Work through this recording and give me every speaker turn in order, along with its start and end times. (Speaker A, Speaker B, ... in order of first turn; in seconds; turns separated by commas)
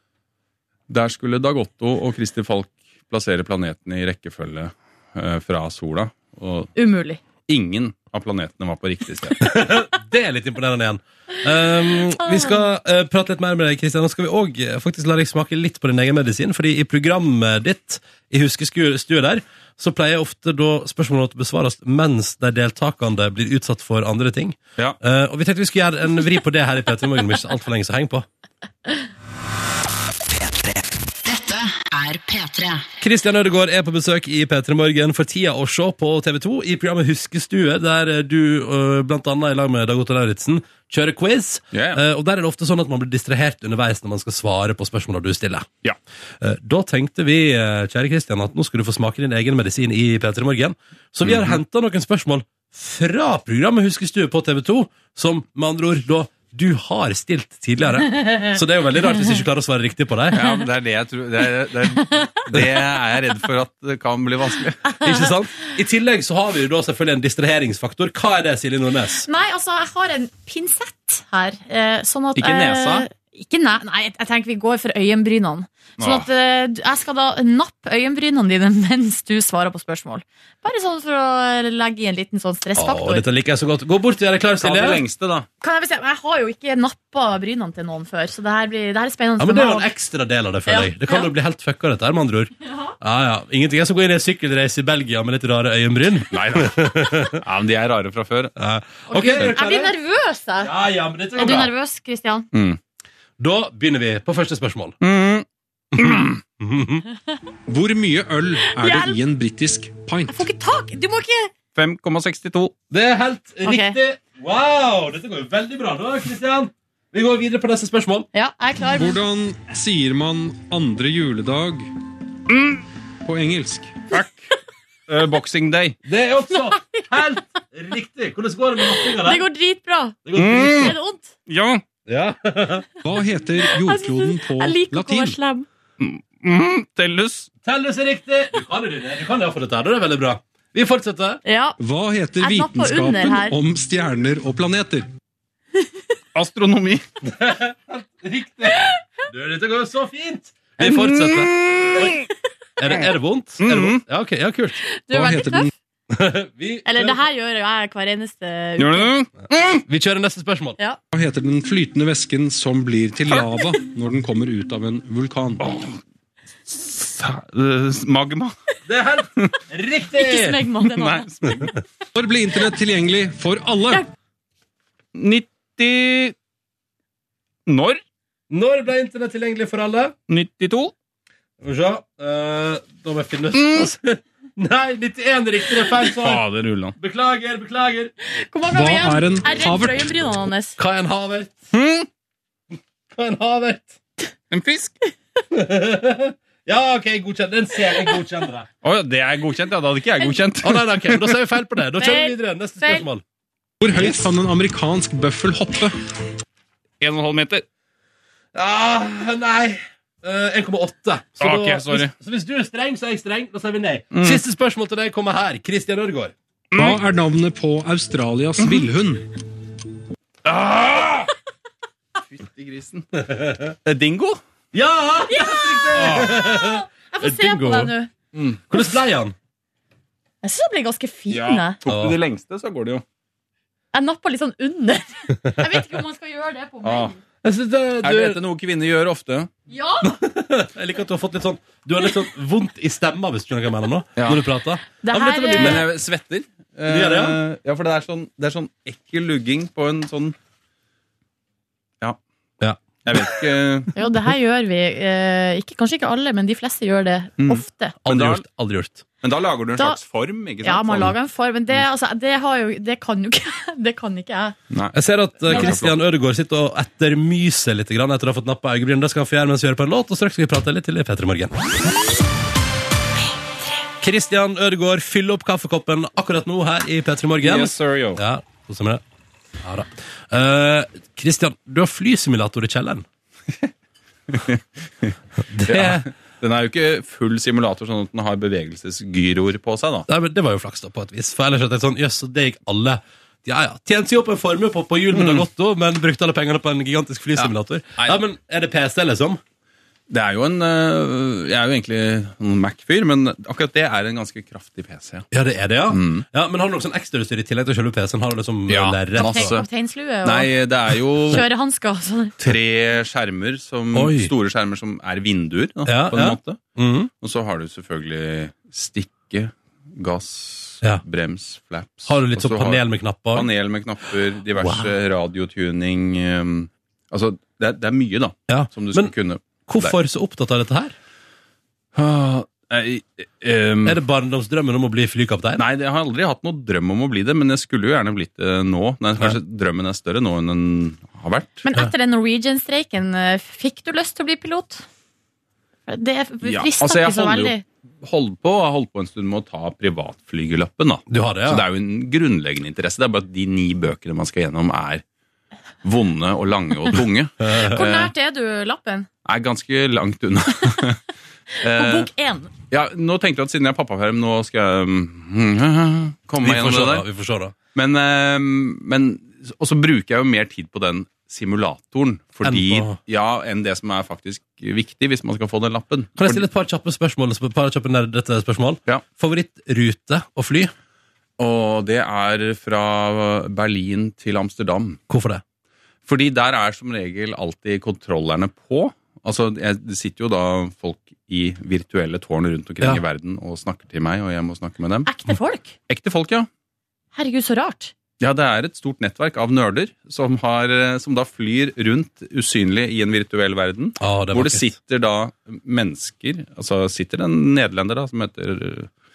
Speaker A: 0.9-6.7, Speaker B: 6.7-7.2, Speaker A: 7.5-9.5, Speaker C: 9.4-28.2, Speaker D: 30.3-32.9, Speaker C: 33.0-45.7, Speaker A: 41.7-42.0, Speaker C: 46.4-60.4, Speaker A: 51.2-51.6, Speaker B: 58.2-58.5, Speaker A: 60.3-65.0, Speaker B: 65.0-65.3, Speaker C: 65.0-69.2, Speaker B: 69.2-83.2, Speaker A: 72.3-73.1, Speaker A: 76.0-76.3, Speaker C: 82.8-85.0, Speaker A: 84.6-85.5, Speaker B: 85.6-89.9, Speaker C: 89.4-97.4, Speaker B: 90.7-91.3, Speaker B: 92.6-92.9, Speaker A: 96.3-98.5, Speaker C: 98.6-99.9, Speaker B: 99.1-100.7, Speaker C: 100.6-101.7, Speaker B: 101.3-102.5, Speaker A: 102.5-102.8, Speaker C: 103.4-105.0, Speaker A: 105.0-106.4, Speaker C: 106.0-107.0, Speaker E: 107.7-110.3, Speaker B: 108.6-109.2, Speaker B: 110.3-111.5, Speaker A: 111.7-112.7, Speaker C: 112.9-118.3, Speaker B: 113.6-114.0, Speaker B: 118.3-119.2, Speaker E: 118.9-121.9, Speaker A: 122.5-122.8, Speaker E: 123.2-124.0, Speaker A: 124.1-124.4, Speaker A: 125.1-126.0, Speaker C: 126.0-129.4, Speaker B: 126.5-127.1, Speaker B: 128.9-130.2, Speaker C: 130.2-130.9, Speaker A: 130.3-130.9, Speaker B: 130.7-131.3, Speaker A: 131.5-131.8, Speaker C: 132.1-132.8, Speaker E: 133.0-135.4, Speaker B: 133.6-135.7, Speaker A: 136.0-137.5, Speaker C: 137.6-141.4, Speaker B: 141.4-141.8, Speaker E: 141.8-145.1, Speaker B: 142.4-143.6, Speaker A: 146.3-147.0, Speaker C: 147.2-152.1, Speaker A: 150.8-152.2, Speaker C: 152.8-154.8, Speaker A: 152.9-154.0, Speaker B: 154.9-155.7, Speaker E: 155.1-155.7, Speaker C: 156.1-157.2, Speaker B: 156.8-159.1, Speaker A: 158.8-159.8, Speaker C: 159.9-160.8, Speaker E: 161.1-165.6, Speaker A: 165.6-166.0, Speaker A: 166.7-168.5, Speaker C: 168.9-170.7, Speaker B: 170.2-171.7, Speaker A: 170.8-171.7, Speaker E: 172.1-174.0, Speaker A: 175.1-176.3, Speaker A: 177.7-178.0, Speaker C: 178.5-180.1, Speaker A: 180.3-180.9, Speaker C: 181.6-186.4, Speaker A: 183.5-183.9, Speaker A: 186.1-186.9, Speaker C: 187.0-188.1, Speaker B: 188.2-190.8, Speaker E: 188.7-190.1, Speaker C: 190.8-191.6, Speaker A: 191.7-192.1, Speaker C: 193.1-193.9, Speaker A: 194.5-194.9, Speaker C: 195.5-198.7, Speaker A: 198.8-201.4, Speaker C: 200.6-203.2, Speaker B: 202.0-203.1, Speaker E: 203.8-205.9, Speaker A: 207.0-207.7, Speaker C: 208.5-216.3, Speaker A: 211.4-212.1, Speaker A: 214.1-214.4, Speaker A: 216.7-217.0, Speaker E: 216.8-219.3, Speaker A: 218.6-218.8, Speaker A: 220.4-221.3, Speaker A: 222.2-223.2, Speaker C: 223.3-223.7, Speaker A: 223.8-224.4, Speaker C: 224.7-227.9, Speaker B: 225.3-228.1, Speaker A: 225.9-226.4, Speaker A: 228.3-228.8, Speaker C: 228.7-229.3, Speaker B: 230.4-231.8, Speaker A: 231.3-233.0, Speaker C: 231.9-232.2, Speaker B: 233.9-237.2, Speaker A: 236.8-237.2, Speaker C: 237.4-238.4, Speaker A: 238.0-239.5, Speaker B: 239.7-240.2, Speaker C: 240.0-245.9, Speaker A: 244.2-244.5, Speaker B: 245.0-245.8, Speaker A: 245.6-250.3, Speaker C: 246.9-247.4, Speaker C: 252.6-253.2, Speaker A: 253.0-253.9, Speaker B: 253.9-257.9, Speaker A: 257.4-258.4, Speaker C: 258.0-259.0, Speaker A: 259.2-261.1, Speaker B: 260.6-264.6, Speaker A: 264.7-266.0, Speaker C: 264.9-271.5, Speaker B: 265.5-265.8, Speaker C: 274.0-279.0, Speaker A: 277.4-278.2, Speaker C: 279.6-283.1, Speaker A: 284.3-285.1, Speaker C: 285.5-286.0, Speaker A: 285.6-290.0, Speaker C: 290.1-299.4, Speaker A: 295.1-295.4, Speaker A: 297.4-298.2, Speaker A: 300.1-305.3, Speaker C: 305.3-309.5, Speaker A: 305.9-306.2, Speaker A: 308.7-309.6, Speaker B: 309.1-310.5, Speaker A: 310.2-311.4, Speaker B: 311.3-312.4, Speaker A: 312.4-316.6, Speaker C: 313.9-314.3, Speaker C: 315.9-317.1, Speaker A: 317.2-330.0, Speaker C: 322.1-323.5, Speaker C: 324.6-324.9, Speaker C: 328.5-329.1, Speaker C: 329.6-330.9, Speaker A: 331.9-334.0, Speaker C: 333.8-335.6, Speaker A: 335.6-341.6, Speaker B: 341.6-344.8, Speaker B: 345.9-347.6, Speaker A: 346.4-355.0, Speaker C: 351.1-351.6, Speaker A: 355.8-357.3, Speaker C: 357.4-357.9, Speaker B: 357.6-359.1, Speaker A: 359.2-361.0, Speaker A: 361.6-362.1, Speaker B: 361.6-362.5, Speaker A: 362.7-367.1, Speaker C: 366.4-367.5, Speaker A: 367.7-376.4, Speaker C: 372.4-373.0, Speaker C: 376.2-380.7, Speaker A: 381.4-385.0, Speaker C: 385.1-385.4, Speaker A: 386.0-395.1, Speaker B: 395.1-395.7, Speaker A: 395.9-396.5, Speaker B: 397.1-397.9, Speaker A: 398.2-408.9, Speaker C: 404.0-404.7